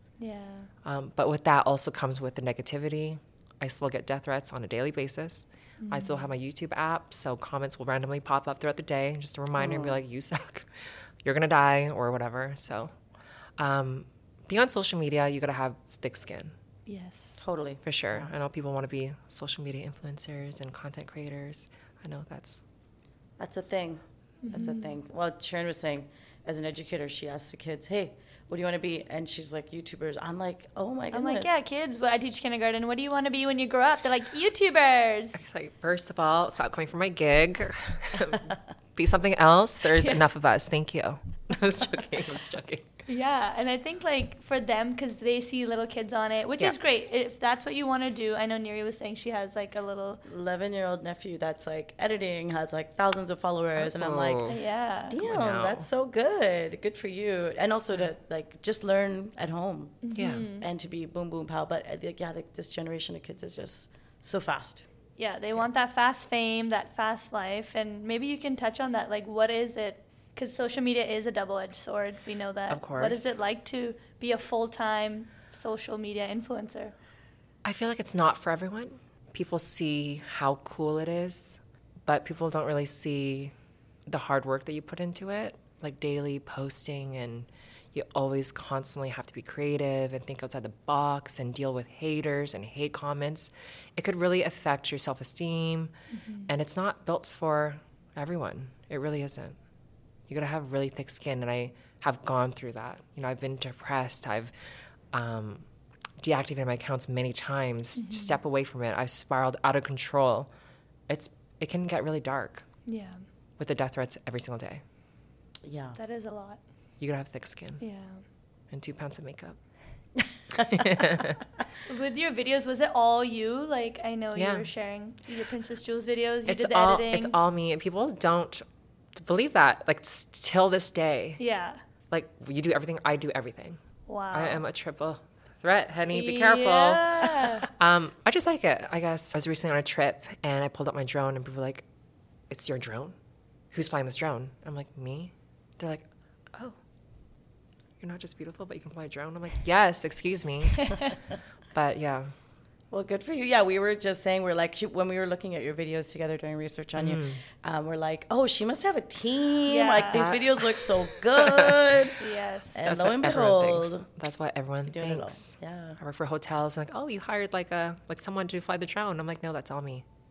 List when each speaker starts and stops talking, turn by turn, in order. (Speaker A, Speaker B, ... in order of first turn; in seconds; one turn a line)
Speaker A: 0.2-0.7
Speaker B: 0.8-12.9
Speaker A: 5.8-6.3
Speaker C: 9.6-10.0
Speaker B: 13.6-16.5
Speaker A: 16.9-17.4
Speaker C: 17.4-18.3
Speaker B: 17.8-22.6
Speaker C: 23.4-31.6
Speaker A: 24.4-24.9
Speaker A: 31.1-35.4
Speaker B: 35.3-42.9
Speaker A: 43.1-50.2
Speaker C: 50.2-54.4
Speaker B: 53.8-54.6
Speaker A: 54.5-55.1
Speaker C: 55.1-64.8
Speaker B: 55.2-55.9
Speaker A: 60.0-60.6
Speaker B: 60.1-60.5
Speaker A: 65.2-76.9
Speaker B: 72.7-73.3
Speaker B: 77.6-83.5
Speaker B: 84.1-95.9
Speaker A: 96.1-96.5
Speaker B: 96.5-99.6
Speaker B: 100.3-104.5
Speaker B: 105.1-105.7
Speaker B: 106.2-110.5
Speaker A: 108.0-108.4
Speaker B: 111.1-112.7
Speaker A: 112.8-113.2
Speaker B: 113.6-114.8
Speaker C: 115.6-116.0
Speaker A: 115.9-116.6
Speaker B: 117.0-117.8
Speaker A: 117.8-118.2
Speaker B: 118.7-119.6
Speaker B: 120.6-121.4
Speaker A: 121.8-127.3
Speaker B: 124.3-124.7
Speaker B: 126.5-131.4
Speaker A: 131.4-131.8
Speaker B: 132.1-133.8
Speaker A: 134.1-134.6
Speaker B: 134.3-141.8
Speaker A: 136.1-137.7
Speaker B: 142.5-143.1
Speaker B: 143.7-146.8
Speaker B: 148.0-151.0
Speaker A: 150.8-151.1
Speaker B: 151.7-152.3
Speaker C: 152.9-162.2
Speaker B: 157.0-157.4
Speaker A: 159.7-160.2
Speaker B: 160.1-162.0
Speaker A: 162.2-162.8
Speaker C: 162.7-164.1
Speaker B: 162.8-170.0
Speaker C: 164.9-166.0